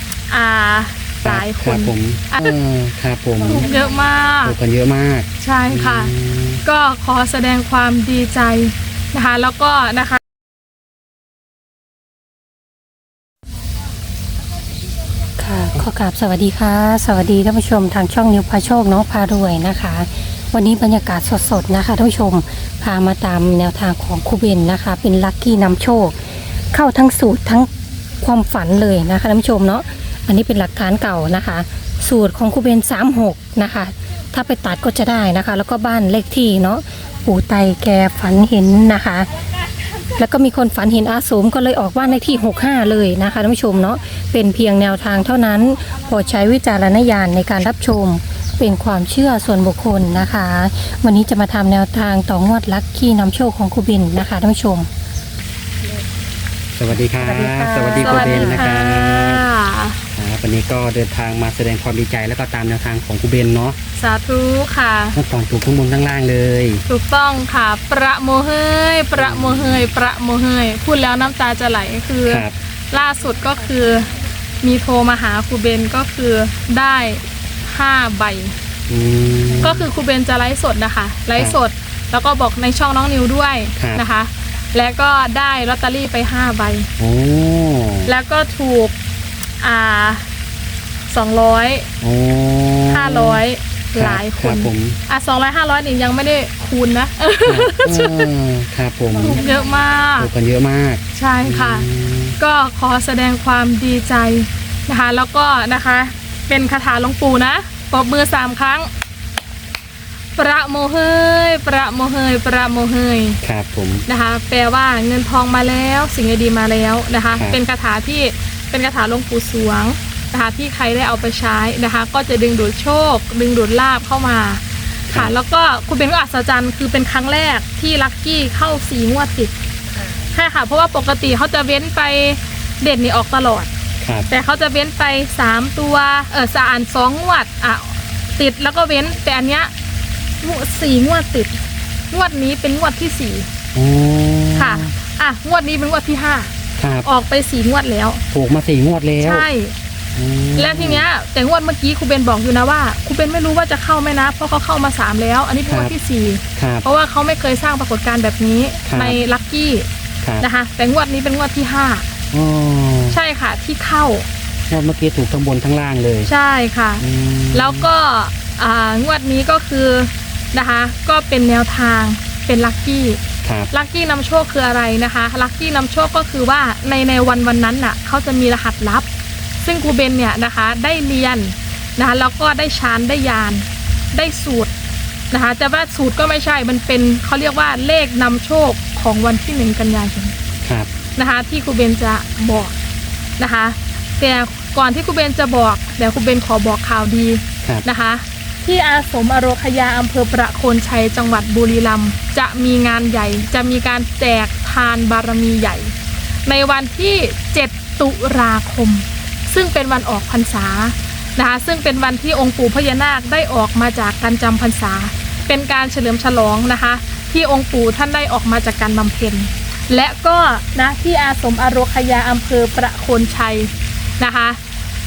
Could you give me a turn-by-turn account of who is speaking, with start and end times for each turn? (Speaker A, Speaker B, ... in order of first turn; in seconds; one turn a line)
Speaker A: 0.3-2.5
Speaker B: 1.2-3.7
Speaker A: 3.4-4.5
Speaker B: 4.4-6.6
Speaker A: 5.4-6.1
Speaker A: 6.6-10.2
Speaker C: 15.4-39.3
Speaker C: 40.1-54.9
Speaker B: 56.7-59.5
Speaker C: 57.2-58.7
Speaker A: 58.0-60.0
Speaker B: 60.1-63.8
Speaker A: 64.0-65.2
Speaker B: 65.1-66.8
Speaker A: 66.9-78.5
Speaker B: 69.1-69.9
Speaker B: 72.3-72.5
Speaker B: 78.9-79.9
Speaker A: 79.6-86.9
Speaker B: 83.8-84.0
Speaker B: 87.0-88.1
Speaker A: 88.0-88.9
Speaker A: 89.6-90.2
Speaker A: 91.1-91.9
Speaker B: 92.0-93.4
Speaker A: 92.9-98.2
Speaker B: 94.0-95.0
Speaker B: 97.4-99.5
Speaker A: 99.2-100.3
Speaker B: 100.2-102.3
Speaker A: 101.1-101.9
Speaker A: 102.4-108.9
Speaker A: 110.4-113.4
Speaker B: 113.4-114.0
Speaker A: 114.1-129.5
Speaker A: 130.3-133.7
Speaker B: 134.0-134.3
Speaker A: 134.3-139.7
Speaker A: 140.4-141.5
Speaker A: 142.1-143.5
Speaker B: 143.7-144.9
Speaker A: 144.5-146.5
Speaker B: 146.8-147.1
Speaker A: 147.0-148.2
Speaker B: 148.3-149.5
Speaker A: 149.2-149.7
Speaker B: 150.1-151.1
Speaker A: 150.6-159.9
Speaker B: 155.7-155.9
Speaker B: 156.6-156.8
Speaker B: 158.8-159.2
Speaker A: 160.4-162.1
Speaker B: 162.3-163.2
Speaker A: 163.1-164.2
Speaker B: 164.7-166.3
Speaker A: 166.2-173.2
Speaker B: 167.0-167.9
Speaker B: 173.4-173.7
Speaker A: 173.7-179.1
Speaker A: 179.6-184.7
Speaker A: 185.3-190.3
Speaker B: 190.6-190.9
Speaker A: 191.2-192.7
Speaker A: 193.4-205.9
Speaker A: 206.4-224.6